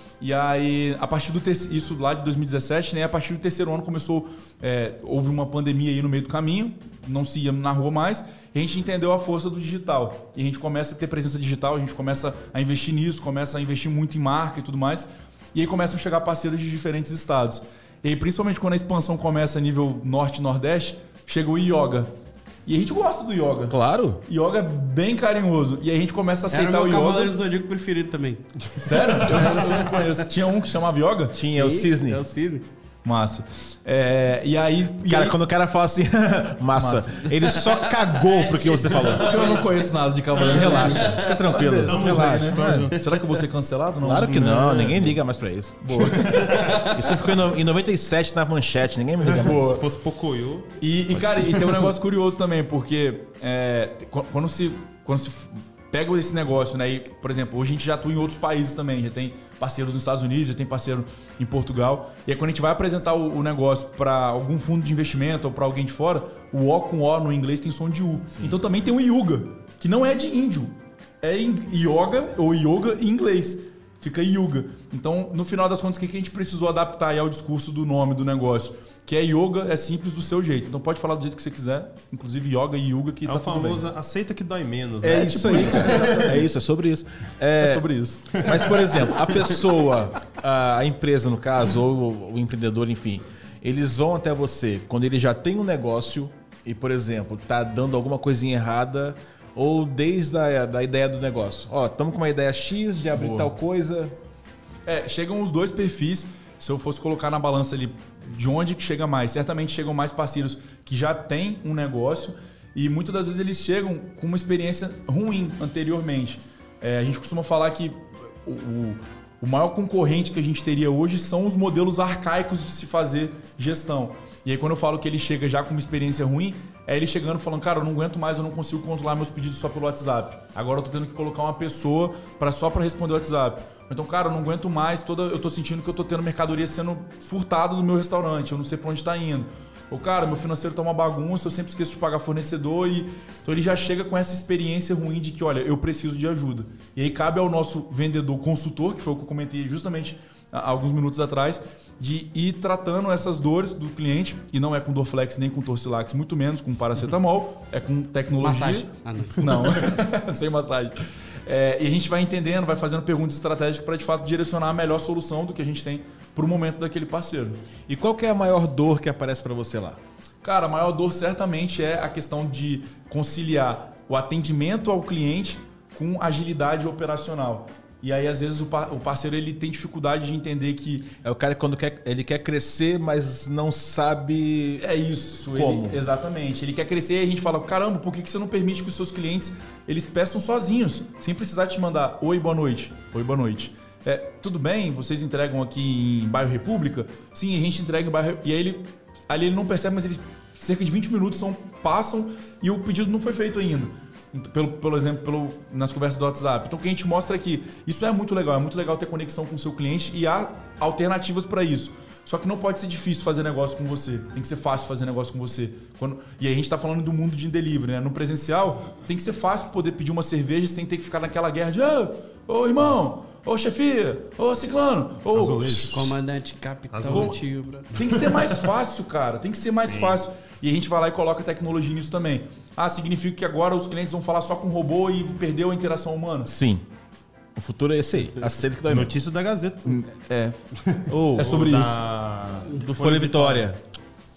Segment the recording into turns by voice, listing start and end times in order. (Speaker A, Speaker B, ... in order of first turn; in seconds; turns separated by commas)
Speaker A: 0.2-22.1, Speaker A: 22.7-27.3, Speaker B: 23.7-24.2, Speaker C: 26.5-28.4, Speaker A: 28.8-31.4, Speaker D: 29.0-29.5, Speaker C: 29.4-29.8, Speaker B: 31.3-32.2, Speaker C: 31.5-32.6, Speaker A: 33.0-35.4, Speaker B: 35.1-39.7, Speaker A: 36.8-37.3, Speaker D: 38.8-39.5, Speaker A: 39.0-44.8, Speaker B: 40.3-42.9, Speaker D: 41.8-43.2, Speaker B: 44.0-49.7, Speaker D: 44.2-45.2, Speaker A: 45.8-46.7, Speaker D: 46.1-46.9, Speaker C: 46.7-46.9, Speaker D: 49.3-51.9, Speaker A: 49.3-49.8, Speaker A: 50.8-83.9, Speaker B: 68.3-68.6, Speaker D: 83.2-86.4, Speaker B: 85.0-104.1, Speaker A: 85.1-86.5, Speaker A: 87.6-88.5, Speaker D: 88.4-89.5, Speaker A: 103.1-103.5, Speaker A: 104.9-167.6, Speaker C: 158.4-159.8, Speaker B: 167.9-170.0, Speaker A: 170.4-181.1, Speaker B: 181.2-184.9, Speaker A: 184.8-225.9, Speaker B: 185.4-186.0, Speaker D: 225.3-226.2, Speaker C: 225.9-227.9, Speaker D: 226.9-227.4, Speaker A: 227.1-236.5, Speaker D: 227.9-228.5, Speaker D: 229.8-230.2, Speaker B: 236.4-236.8, Speaker B: 237.6-239.2, Speaker D: 238.9-240.0, Speaker A: 239.9-240.6, Speaker D: 240.8-243.7, Speaker B: 241.1-241.7, Speaker A: 241.3-242.0, Speaker B: 242.7-243.8